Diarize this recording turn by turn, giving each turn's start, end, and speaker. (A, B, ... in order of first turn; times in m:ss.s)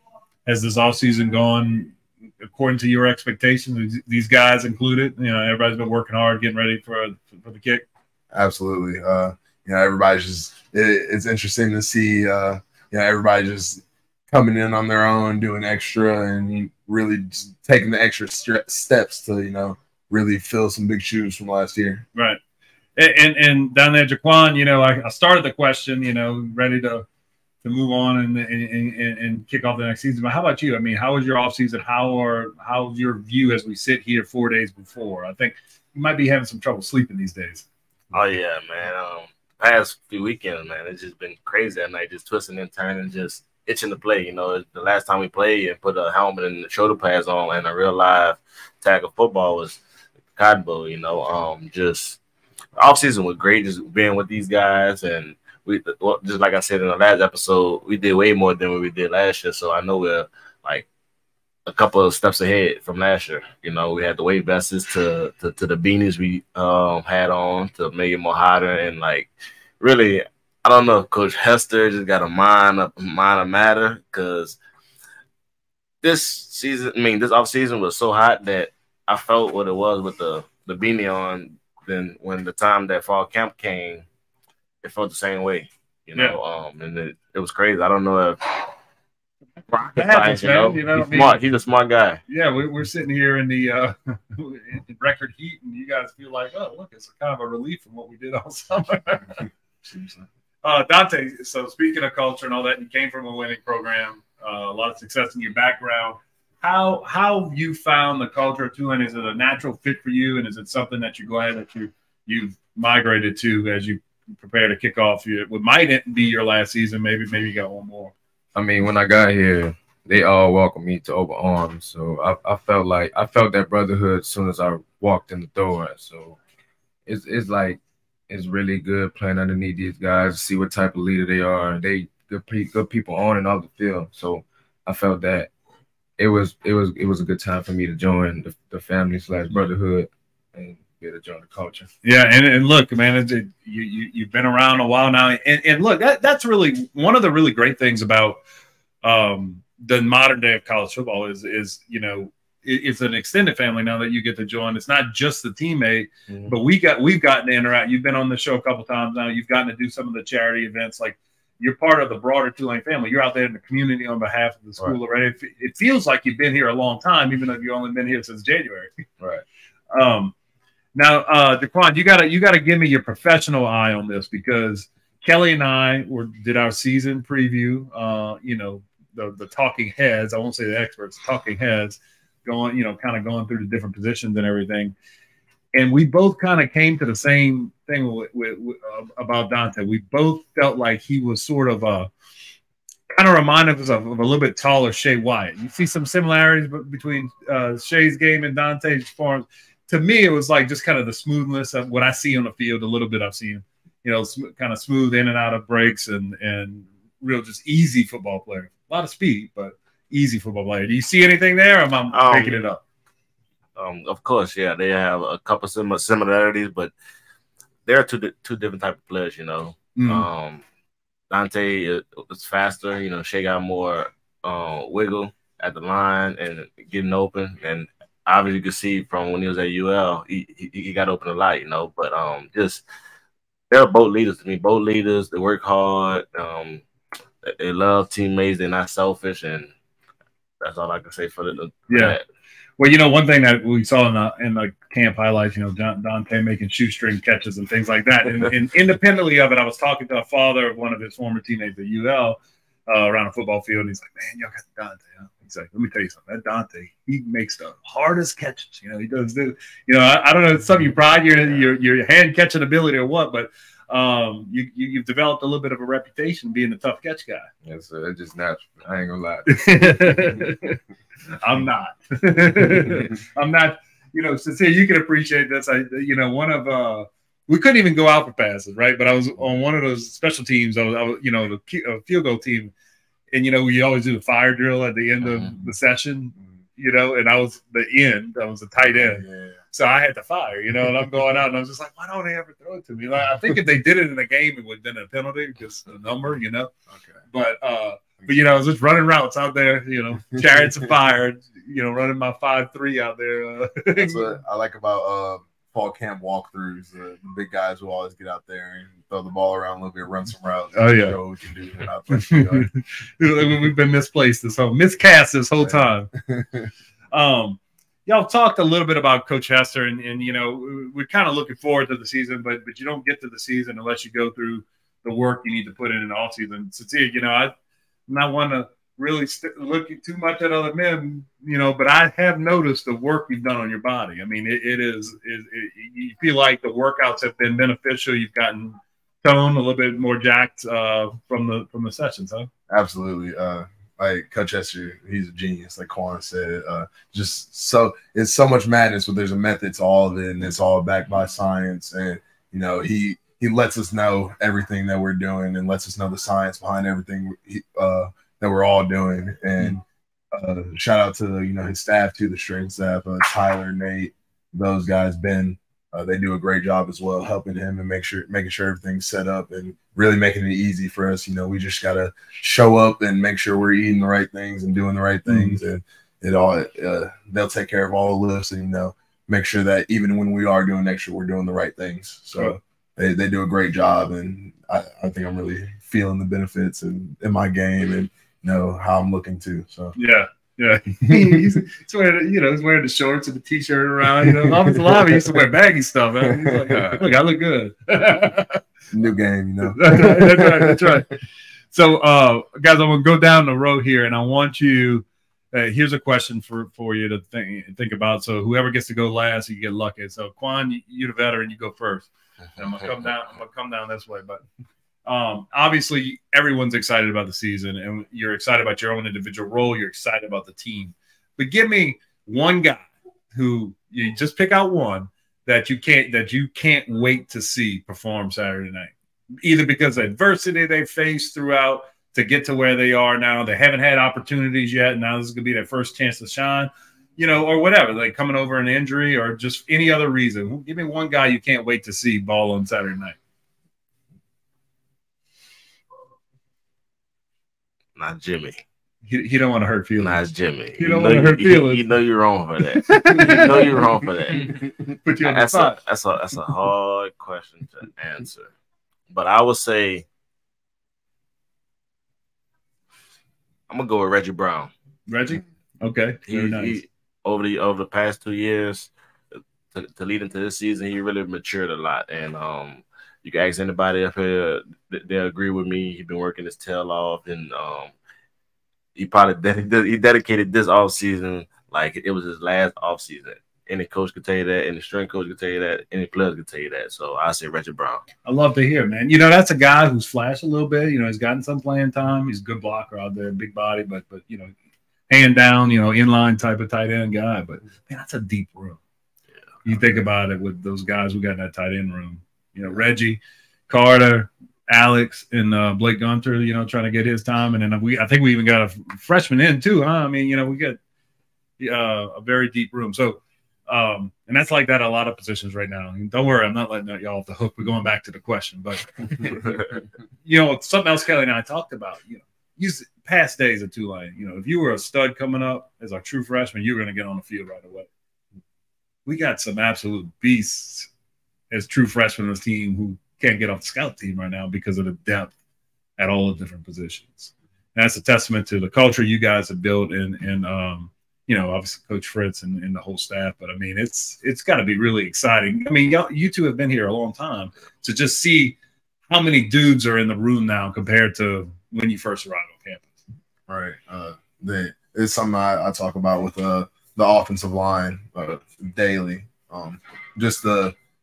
0:00.4-0:07.8 A
0:08.3-0:22.0 B
0:23.0-0:27.0 A
0:27.6-0:37.6 A
0:38.1-0:49.8 C
0:50.4-0:52.2 C
0:52.8-1:00.9 C
1:01.6-1:14.6 C
1:16.0-1:24.0 C
1:24.8-1:28.7 C
1:29.7-1:32.2 C
1:29.9-1:31.4 A
1:32.3-1:39.5 A
1:39.8-1:40.2 B
1:40.6-1:58.1 A
1:58.5-2:06.4 D
2:07.0-2:15.5 D
2:16.2-2:21.9 D
2:22.0-2:28.4 A
2:29.0-2:48.9 A
2:36.3-2:36.5 D
2:49.2-2:49.4 D
2:49.9-2:50.3 A
2:50.9-3:04.9 A
3:05.7-3:12.1 A
3:13.1-3:32.8 A
3:32.1-3:32.6 C
3:33.8-3:36.9 C
3:37.8-3:40.6 C
3:40.0-3:40.3 A
3:41.3-3:52.8 C
3:53.7-3:56.8 C
3:57.4-3:59.7 C
4:00.6-4:02.2 C
4:01.9-4:02.2 A
4:02.8-4:27.5 A
4:27.6-4:30.4 D
4:29.5-4:30.8 A
4:31.4-4:42.7 A
4:43.3-4:56.7 A
4:48.9-4:49.6 B
4:56.9-4:57.2 B
4:57.3-5:04.3 A
5:04.0-5:12.7 B
5:10.8-5:11.2 A
5:12.1-5:16.1 A
5:15.6-5:16.7 B
5:17.1-5:27.5 A
5:28.1-5:42.5 A
5:42.7-5:59.8 B
6:00.3-6:29.9 B
6:15.2-6:15.6 A
6:29.9-6:38.6 A
6:31.1-6:31.4 B
6:34.3-6:35.2 B
6:36.3-6:36.8 B
6:36.7-6:37.0 D
6:38.9-6:41.0 B
6:39.7-6:41.1 A
6:41.7-6:54.4 A
6:52.6-6:53.2 C
6:55.0-7:23.2 A
7:28.0-7:28.6 C
7:29.0-7:30.2 A
7:30.0-7:34.6 C
7:30.8-7:31.9 A
7:32.8-7:33.8 A
7:35.0-7:35.8 A
7:35.2-7:38.5 C
7:39.1-7:40.0 C
7:43.7-7:44.7 C
7:45.1-7:46.8 A
7:46.3-7:48.9 C
7:49.7-7:57.9 C
7:59.0-8:08.0 C
8:08.2-8:14.5 A
8:15.1-8:18.8 A
8:19.6-8:30.8 A
8:31.6-8:39.6 A
8:40.2-8:47.9 A
8:49.0-8:50.9 A
8:51.5-8:55.3 A
8:56.0-9:08.6 A
9:09.1-9:13.0 A
9:13.5-9:20.7 B